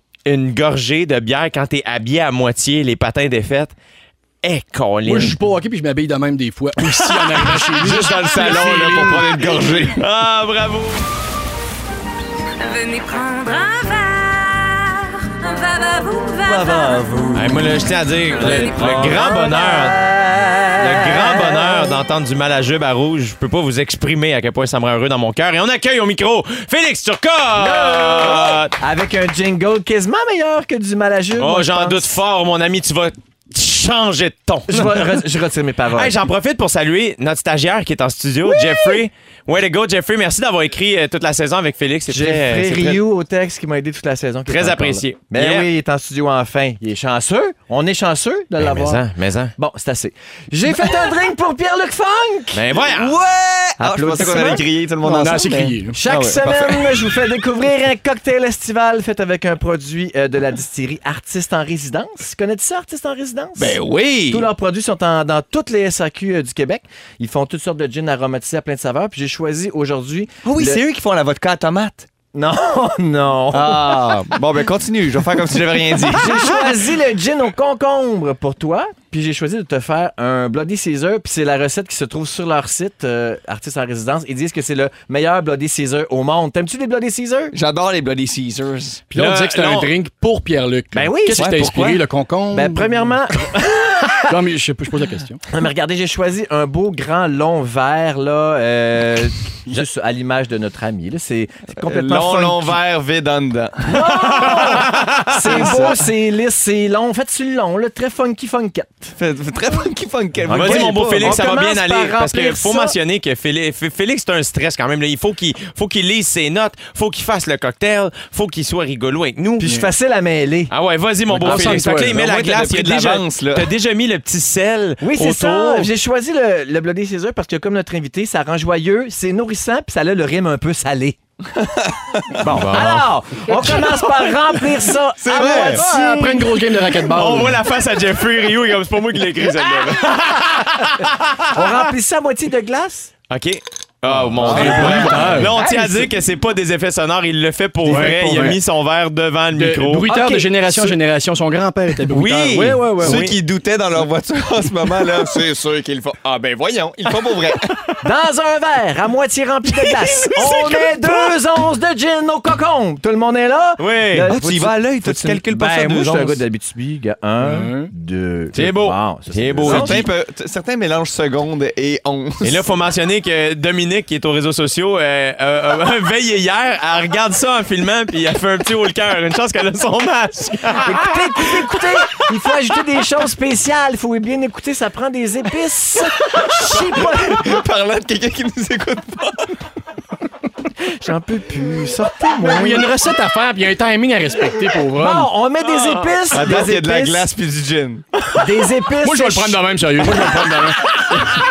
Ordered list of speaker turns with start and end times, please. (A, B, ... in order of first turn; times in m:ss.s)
0:00.3-0:03.7 A
0:04.4-0:05.4 A
0:05.0-0:09.4 B
0:06.9-0:07.8 A
0:07.8-0:10.0 C
0:09.9-0:11.1 A
0:12.6-0:17.1 D
0:16.4-0:17.6 C
0:17.3-0:20.0 A
0:18.4-0:19.5 D
0:18.6-0:19.2 C
0:18.8-0:21.9 E
0:20.8-0:28.8 A
0:27.6-0:32.1 E
0:31.4-0:35.2 A
0:34.7-0:36.2 E
0:35.9-0:43.0 A
0:42.1-0:49.0 E
0:44.5-0:45.7 A
0:48.6-0:49.5 A
0:49.6-0:52.8 E
0:52.5-0:53.2 A
0:52.9-0:57.1 C
0:53.8-0:54.6 E
0:55.0-0:56.0 B
0:55.9-1:10.8 E
1:03.6-1:04.5 C
1:10.4-1:12.1 C
1:12.3-1:14.3 E
1:13.5-1:16.7 C
1:16.1-1:27.5 E
1:27.5-1:29.0 C
1:29.1-1:33.1 B
1:29.1-1:29.9 A
1:30.9-1:31.5 E
1:31.4-1:32.0 C
1:32.5-1:34.3 E
1:34.3-1:35.4 B
1:35.5-1:42.8 E
1:41.8-1:44.1 C
1:43.9-1:49.2 E
1:44.1-1:46.0 A
1:45.6-1:46.0 C
1:49.2-1:51.4 C
1:50.5-1:59.7 A
1:50.5-1:53.0 E
1:59.6-2:00.7 E
1:59.6-1:59.9 B
2:00.7-2:05.9 A
2:01.3-2:02.2 B
2:01.4-2:03.7 C
2:05.0-2:11.2 E
2:11.5-2:12.4 C
2:12.4-2:14.1 A
2:12.5-2:16.5 E
2:15.2-2:15.8 C
2:15.3-2:17.6 B
2:17.0-2:21.9 A
2:21.5-2:23.1 E
2:23.3-2:31.0 A
2:24.1-2:25.5 B
2:24.4-2:25.4 C
2:24.8-2:26.1 E
2:27.8-2:28.6 B
2:29.5-2:33.3 B
2:30.1-2:30.4 E
2:32.1-2:33.4 A
2:33.0-2:37.7 C
2:38.0-2:50.1 E
2:39.7-2:41.4 A
2:43.8-2:44.3 A
2:44.2-2:46.4 C
2:47.4-2:47.9 B
2:48.5-2:50.1 A
2:49.6-2:52.6 C
2:52.4-3:02.1 A
3:00.8-3:07.6 E
3:06.7-3:09.6 C
3:10.8-3:12.9 E
3:12.4-3:15.3 B
3:14.9-3:17.2 E
3:15.6-3:16.2 A
3:16.3-3:18.1 C
3:18.3-3:19.6 E
3:19.0-3:21.3 B